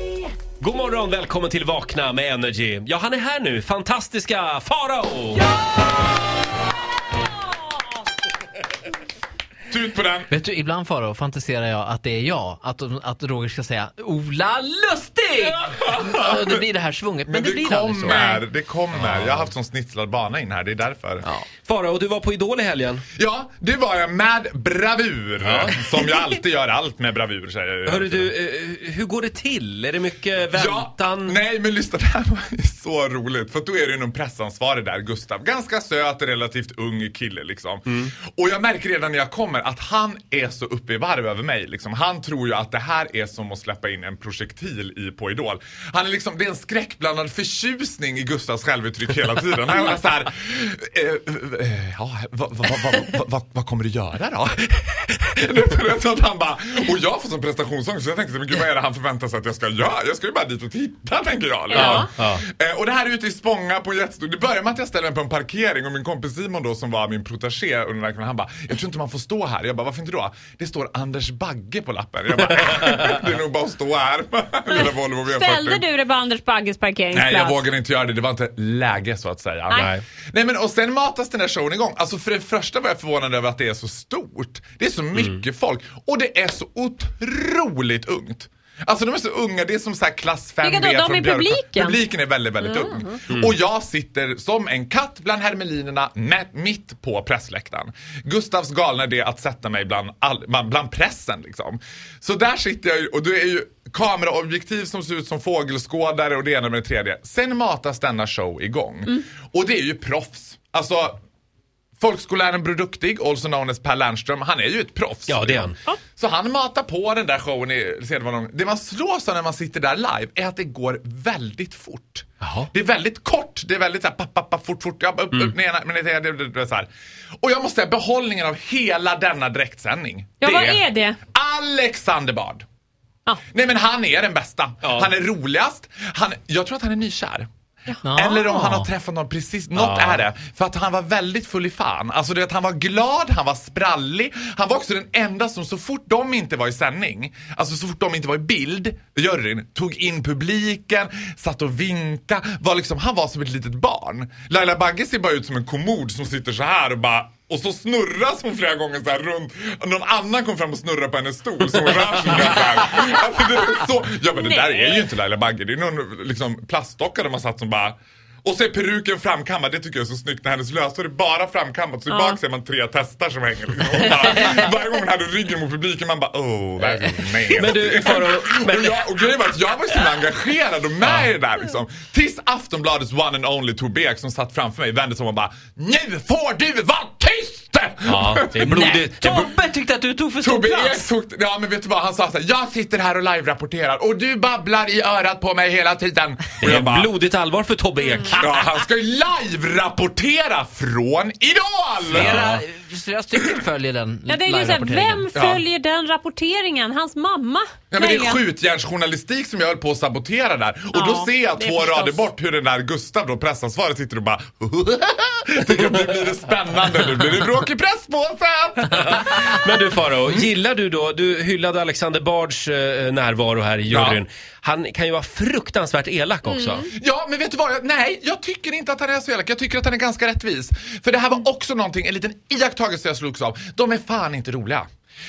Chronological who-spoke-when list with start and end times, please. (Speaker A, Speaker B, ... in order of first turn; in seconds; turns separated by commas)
Speaker A: 0.6-5.4, Speaker B: 9.7-10.3, Speaker C: 10.3-18.2, Speaker B: 15.4-16.6, Speaker B: 17.3-21.2, Speaker D: 18.1-18.4, Speaker A: 18.9-19.5, Speaker A: 21.2-23.0, Speaker B: 23.1-28.3, Speaker A: 25.4-26.2, Speaker A: 27.9-31.3, Speaker B: 30.5-75.8, Speaker D: 61.7-62.1, Speaker A: 61.7-62.4, Speaker D: 74.7-77.6, Speaker B: 77.1-111.2, Speaker A: 79.7-80.0, Speaker D: 90.6-92.0, Speaker D: 92.6-93.2, Speaker B: 112.0-126.9, Speaker A: 115.2-115.8, Speaker A: 122.4-122.7, Speaker B: 127.4-132.6, Speaker D: 130.4-131.2, Speaker B: 133.5-137.5, Speaker A: 134.8-135.1, Speaker C: 138.0-138.9, Speaker B: 138.1-188.9, Speaker A: 139.8-140.2, Speaker D: 164.3-165.1, Speaker D: 172.1-172.4, Speaker A: 177.5-179.1, Speaker A: 181.0-181.3, Speaker A: 188.1-189.5, Speaker C: 188.6-191.0, Speaker B: 190.4-197.1, Speaker A: 196.6-198.4, Speaker D: 198.1-198.3, Speaker B: 198.4-202.4, Speaker A: 202.1-202.6, Speaker C: 202.1-205.2, Speaker D: 204.3-208.4, Speaker B: 205.3-205.6, Speaker B: 207.9-219.7, Speaker D: 210.9-212.2, Speaker A: 219.1-226.9, Speaker B: 220.2-220.5, Speaker B: 223.9-224.2, Speaker D: 226.5-226.8, Speaker B: 226.9-234.9